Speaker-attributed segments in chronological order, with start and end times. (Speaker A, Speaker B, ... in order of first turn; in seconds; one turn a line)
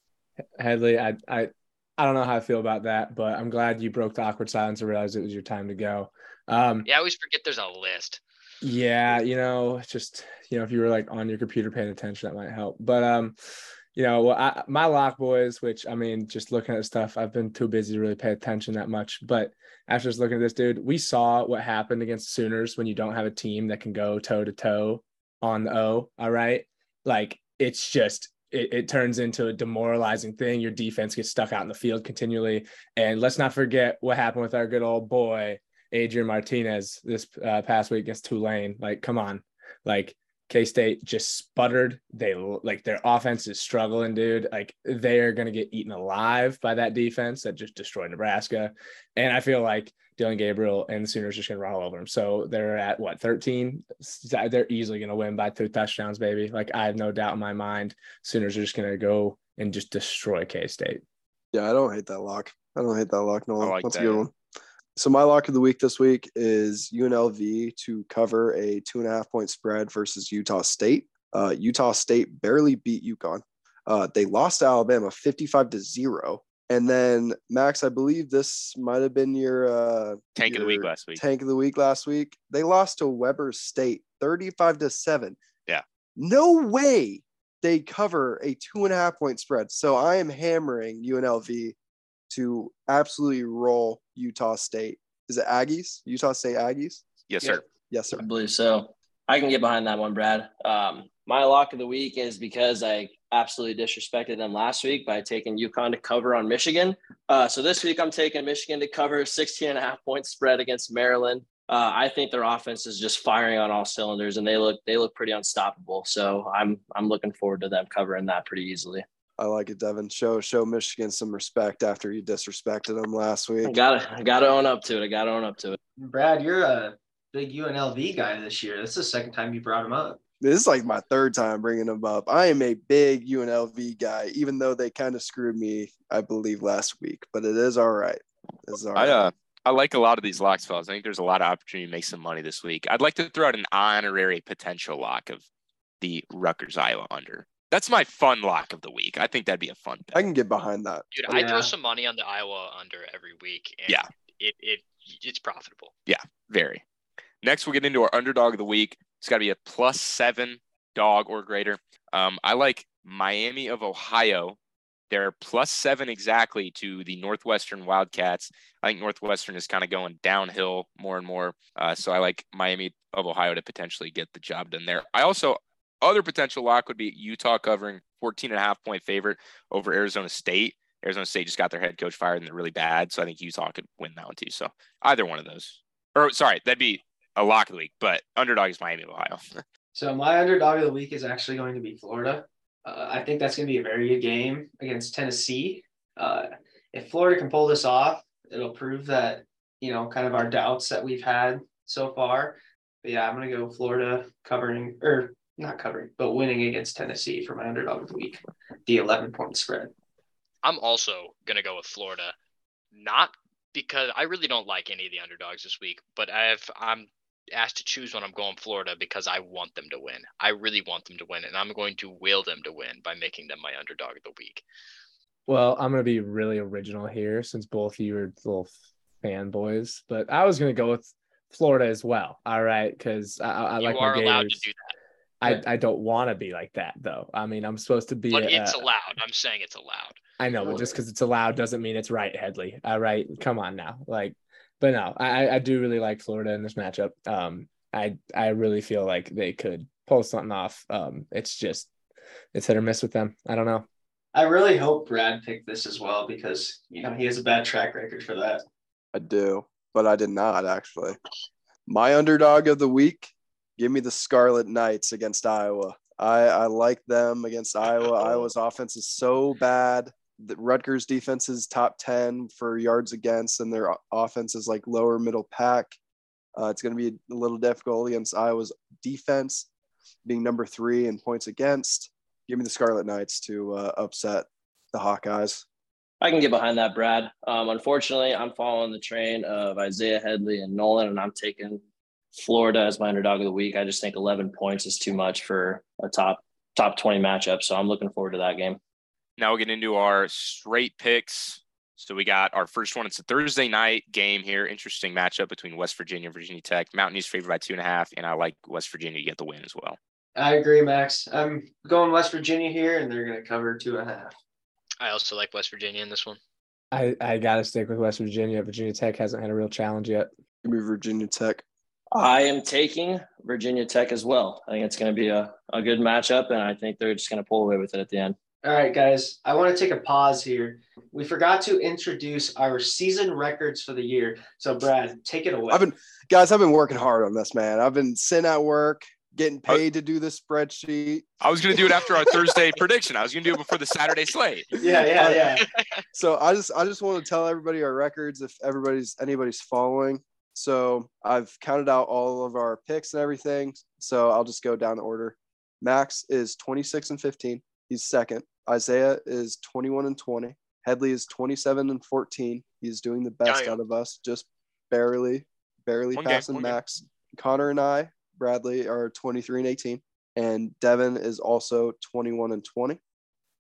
Speaker A: 0.6-6.9
Speaker B: 6.9-8.2
Speaker A: 8.6-13.3
Speaker A: 13.9-61.0
Speaker C: 61.5-64.3
Speaker D: 63.6-64.3
Speaker C: 65.0-85.4
Speaker D: 80.4-81.2
Speaker C: 86.2-91.8
Speaker C: 92.3-97.0
Speaker D: 97.3-97.6
Speaker C: 97.9-98.2
Speaker E: 98.1-119.0
Speaker C: 119.4-123.8
Speaker E: 123.6-125.8
Speaker F: 126.0-130.2
Speaker C: 130.4-139.2
Speaker D: 138.9-145.4
Speaker D: 146.0-150.2
Speaker C: 150.1-151.1
Speaker B: 151.1-155.9
Speaker F: 151.3-151.7
Speaker D: 156.1-156.8
Speaker D: 157.4-164.6
Speaker D: 165.1-189.6
Speaker F: 189.9-209.9
Speaker B: 210.6-212.3
Speaker B: 212.9-224.6
Speaker A: 225.5-234.6
Speaker B: 233.8-234.9
Speaker A: 235.4-238.9
Speaker B: 238.3-240.2
Speaker A: 240.4-251.9
Speaker A: 252.5-253.9
Speaker F: 254.3-258.6
Speaker C: 259.1-261.2
Speaker C: 261.9-276.0
Speaker C: 276.6-279.7
Speaker C: 280.2-285.6
Speaker E: 286.2-291.8
Speaker E: 292.4-298.8
Speaker D: 299.4-310.0
Speaker F: 310.4-314.3
Speaker B: 315.0-316.4
Speaker A: 316.9-320.3
Speaker C: 320.6-321.6
Speaker E: 322.1-328.4
Speaker F: 328.6-335.9
Speaker C: 335.7-341.3
Speaker D: 341.4-344.8
Speaker F: 344.8-345.7
Speaker C: 345.2-345.5
Speaker B: 345.8-346.0
Speaker C: 346.1-373.0
Speaker B: 363.5-363.8
Speaker D: 366.1-366.8